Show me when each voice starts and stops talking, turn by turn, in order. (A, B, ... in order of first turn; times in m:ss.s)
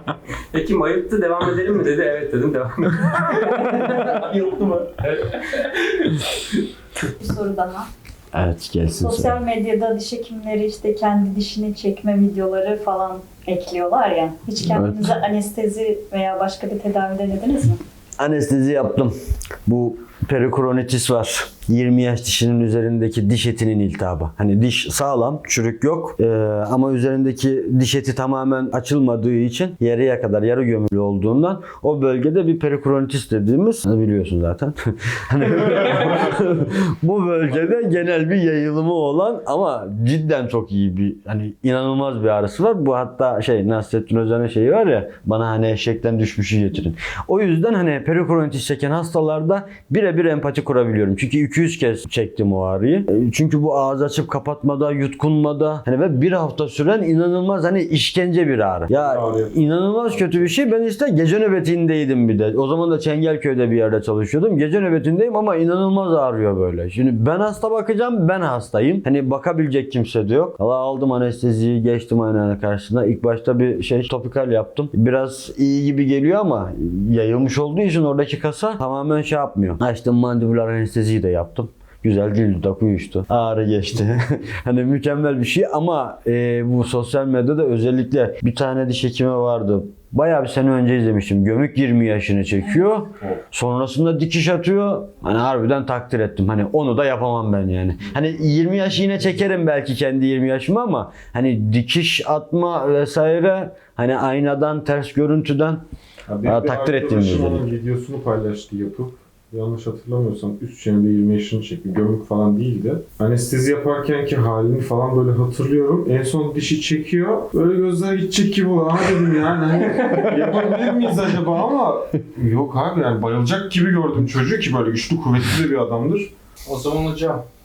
0:00.5-0:03.6 A
0:03.6-0:06.3 B
0:07.2-0:07.9 C
0:08.3-0:09.4 D
0:09.0-0:17.8 C
0:14.6-0:15.2 D
0:18.2-0:19.1 D
0:19.7-1:45.8 D
0:58.9-1:00.5 E
1:46.3-2:06.3 E
1:46.4-1:47.6 D
1:59.8-2:01.1 B
2:06.6-2:07.5 B